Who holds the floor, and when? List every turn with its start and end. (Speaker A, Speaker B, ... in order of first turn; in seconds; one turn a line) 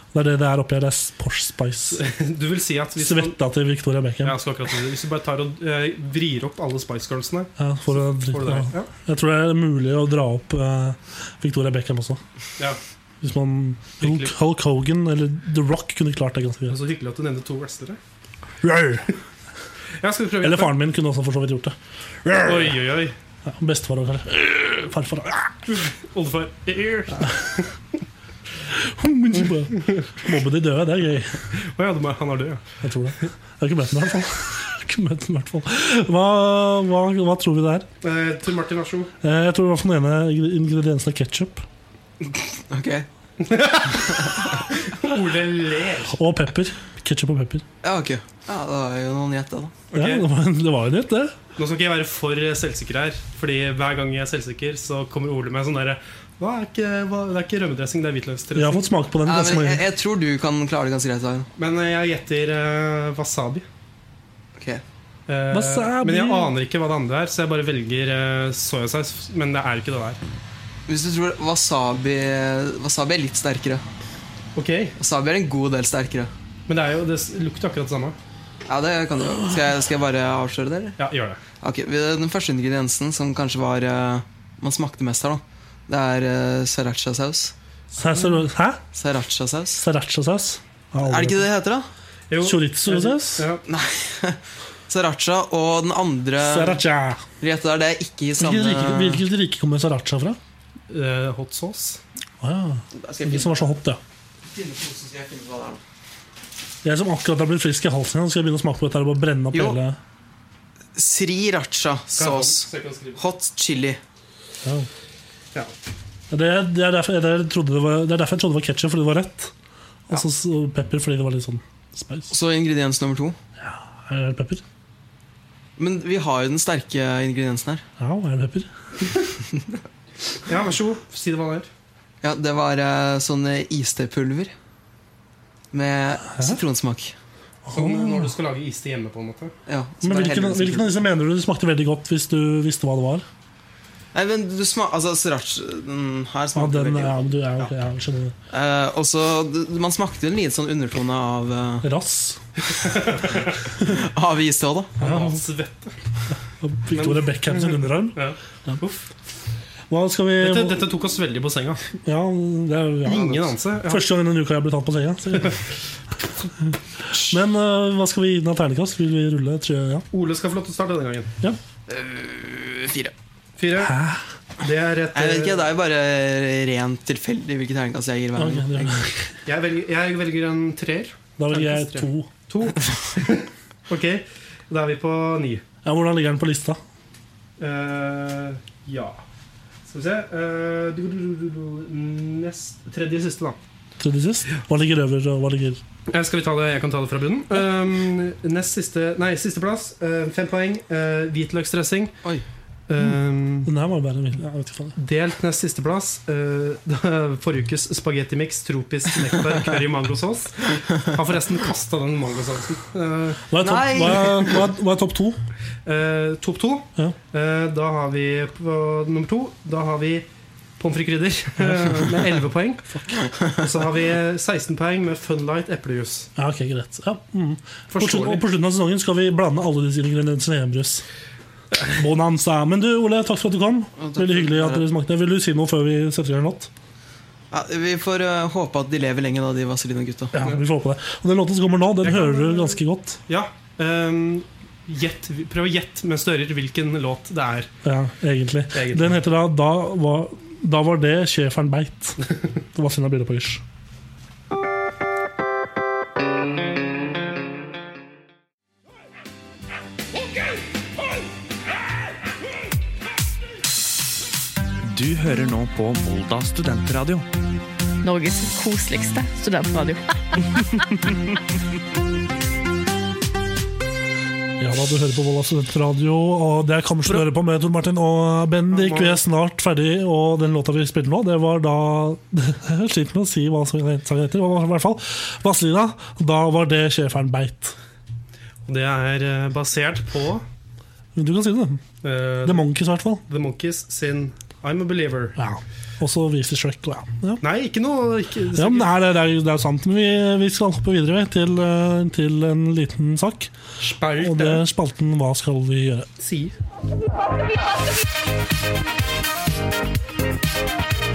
Speaker A: 0.1-2.0
Speaker B: 1.9-3.4
Speaker A: 3.0-4.4
Speaker B: 4.2-8.9
Speaker A: 7.6-12.2
Speaker A: 13.2-16.8
Speaker B: 14.0-14.3
Speaker B: 16.7-18.0
Speaker A: 18.6-19.1
Speaker B: 20.0-20.8
Speaker A: 20.4-22.8
Speaker B: 22.4-23.1
Speaker A: 23.4-25.5
Speaker B: 25.7-27.6
Speaker A: 28.7-31.5
Speaker B: 31.5-32.6
Speaker A: 32.8-37.9
Speaker B: 38.0-39.1
Speaker A: 39.2-41.6
Speaker C: 42.3-43.0
Speaker B: 43.4-46.2
Speaker A: 46.1-47.6
Speaker C: 47.8-49.8
Speaker B: 49.9-50.2
Speaker A: 49.9-51.4
Speaker B: 51.6-58.9
Speaker A: 58.5-59.9
Speaker C: 59.2-61.5
Speaker B: 61.6-63.6
Speaker C: 64.6-64.8
Speaker B: 65.3-70.2
Speaker A: 65.5-66.5
Speaker C: 70.9-73.8
Speaker B: 74.5-75.0
Speaker C: 75.0-76.3
Speaker B: 76.7-78.2
Speaker C: 78.7-81.0
Speaker B: 81.0-81.4
Speaker C: 81.6-87.5
Speaker A: 88.0-88.8
Speaker C: 88.9-89.8
Speaker A: 89.8-91.5
Speaker C: 91.0-91.9
Speaker B: 92.3-93.6
Speaker A: 92.4-93.4
Speaker C: 93.7-96.8
Speaker A: 96.4-97.2
Speaker C: 97.4-99.2
Speaker A: 98.4-100.4
Speaker B: 100.9-102.0
Speaker A: 102.4-104.0
Speaker C: 102.9-103.7
Speaker C: 104.5-105.8
Speaker A: 106.8-110.0
Speaker C: 109.5-109.8
Speaker C: 111.0-114.0
Speaker B: 112.2-113.2
Speaker A: 116.3-119.5
Speaker A: 120.1-122.3
Speaker C: 122.3-123.3
Speaker A: 123.6-124.6
Speaker C: 125.8-127.8
Speaker A: 128.0-128.7
Speaker C: 129.5-129.8
Speaker B: 130.5-131.7
Speaker C: 132.2-134.5
Speaker C: 135.7-137.1
Speaker A: 136.3-136.6
Speaker A: 137.6-138.3
Speaker B: 137.7-139.5
Speaker C: 139.7-140.9
Speaker A: 140.0-143.2
Speaker C: 144.1-147.3
Speaker A: 146.5-148.3
Speaker C: 148.5-151.9
Speaker A: 151.8-152.4
Speaker B: 152.7-153.6
Speaker C: 153.8-155.0
Speaker B: 155.0-155.9
Speaker A: 155.0-155.4
Speaker A: 156.6-158.8
Speaker B: 156.9-159.1
Speaker A: 159.9-160.8
Speaker B: 160.4-161.8
Speaker A: 162.0-165.6
Speaker B: 163.0-164.1
Speaker A: 167.1-170.1
Speaker B: 170.1-171.3
Speaker C: 171.9-173.1
Speaker B: 173.6-173.9
Speaker A: 173.8-174.2
Speaker B: 174.6-175.7
Speaker C: 175.1-179.0
Speaker A: 178.3-179.3
Speaker B: 179.4-185.6
Speaker A: 181.4-182.3
Speaker A: 185.8-186.8
Speaker B: 187.6-189.2
Speaker B: 189.9-193.6
Speaker A: 194.0-195.8
Speaker B: 196.1-202.1
Speaker B: 202.9-203.7
Speaker A: 203.6-205.0
Speaker B: 204.9-213.5
Speaker A: 213.5-215.4
Speaker C: 213.6-214.6
Speaker B: 215.8-220.2
Speaker B: 220.8-222.8
Speaker A: 221.7-222.1
Speaker B: 223.4-226.3
Speaker A: 226.3-231.0
Speaker B: 227.9-228.4
Speaker A: 231.9-236.7
Speaker C: 234.0-234.8
Speaker C: 237.5-240.3
Speaker A: 240.3-243.2
Speaker B: 242.0-247.7
Speaker A: 247.8-253.6
Speaker B: 248.7-249.1
Speaker D: 264.8-267.3
Speaker E: 268.0-270.8
Speaker A: 274.6-287.8
Speaker B: 278.7-279.2
Speaker B: 288.7-290.4
Speaker A: 291.1-291.8
Speaker B: 292.0-292.6
Speaker A: 292.4-293.2
Speaker B: 293.3-295.4
Speaker A: 295.4-297.4
Speaker B: 297.4-298.9
Speaker A: 298.5-303.5
Speaker B: 303.8-304.6
Speaker A: 304.1-306.1
Speaker B: 306.2-306.5